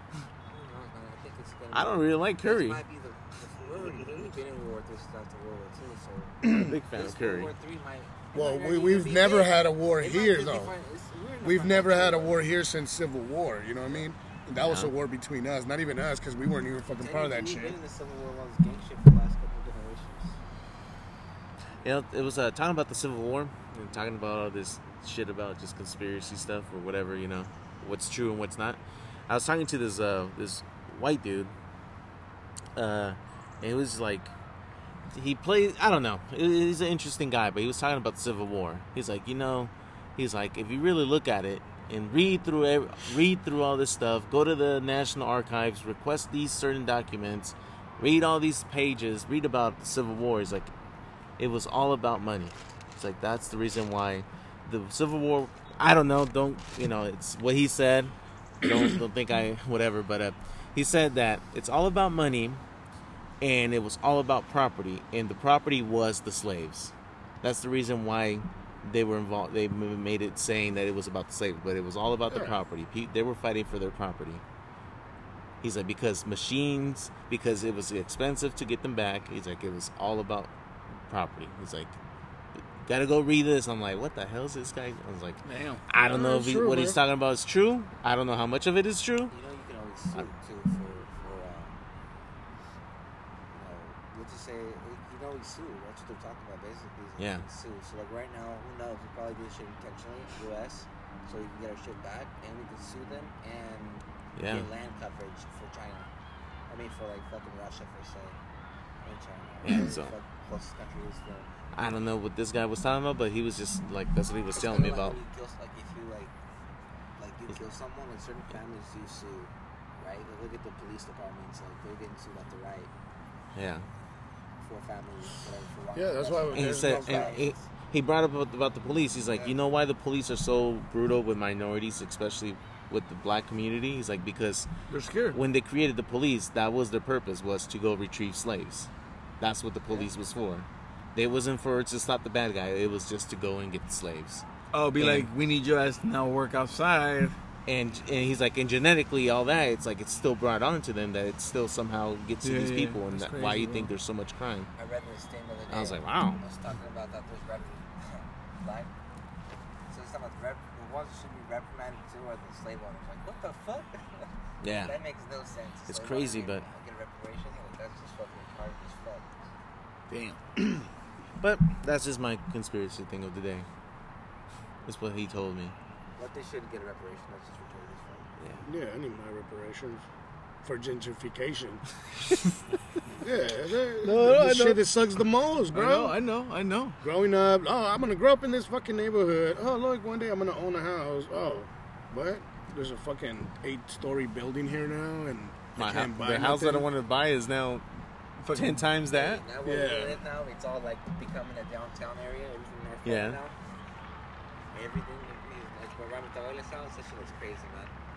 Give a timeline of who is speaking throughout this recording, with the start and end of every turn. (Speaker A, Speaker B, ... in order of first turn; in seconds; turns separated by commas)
Speaker A: 0.5-12.5, Speaker B: 1.7-2.8, Speaker B: 6.4-7.5, Speaker C: 8.3-10.7, Speaker C: 11.4-17.8, Speaker B: 14.6-14.9, Speaker A: 17.0-20.4, Speaker B: 21.8-31.6, Speaker B: 32.8-34.3, Speaker B: 35.1-50.7, Speaker B: 51.4-62.6, Speaker B: 63.4-74.4, Speaker C: 72.3-72.5, Speaker B: 75.6-80.5, Speaker B: 81.1-82.0, Speaker B: 82.6-89.3, Speaker D: 85.4-85.8, Speaker C: 86.0-87.0, Speaker A: 89.3-91.8, Speaker A: 93.5-106.1, Speaker B: 97.2-97.5, Speaker B: 104.4-104.7, Speaker A: 106.7-108.4, Speaker A: 109.0-111.5, Speaker B: 109.6-110.1, Speaker B: 111.7-115.2, Speaker A: 114.5-116.3, Speaker A: 117.2-122.9, Speaker B: 123.5-123.8, Speaker A: 124.6-127.7, Speaker C: 125.9-127.3, Speaker B: 126.5-134.7, Speaker A: 129.2-129.6, Speaker D: 134.9-135.4, Speaker B: 135.3-144.4, Speaker A: 139.9-140.2, Speaker D: 144.7-147.4, Speaker B: 145.0-145.3, Speaker B: 147.7-154.7, Speaker D: 152.4-153.9, Speaker A: 154.8-158.9, Speaker B: 155.7-156.4, Speaker A: 159.9-169.3, Speaker B: 164.6-165.0, Speaker B: 165.9-166.6, Speaker D: 170.1-170.9, Speaker B: 171.4-173.7, Speaker B: 174.8-175.7, Speaker A: 176.2-178.3, Speaker B: 178.4-178.7, Speaker C: 178.7-180.0, Speaker C: 180.6-181.8, Speaker C: 183.2-186.2, Speaker D: 184.0-184.8, Speaker D: 185.7-187.0, Speaker C: 187.0-196.9, Speaker B: 195.8-197.8, Speaker D: 198.4-198.8, Speaker B: 198.5-199.4, Speaker A: 199.1-203.6, Speaker C: 199.6-200.2, Speaker B: 203.0-203.4, Speaker A: 204.7-207.9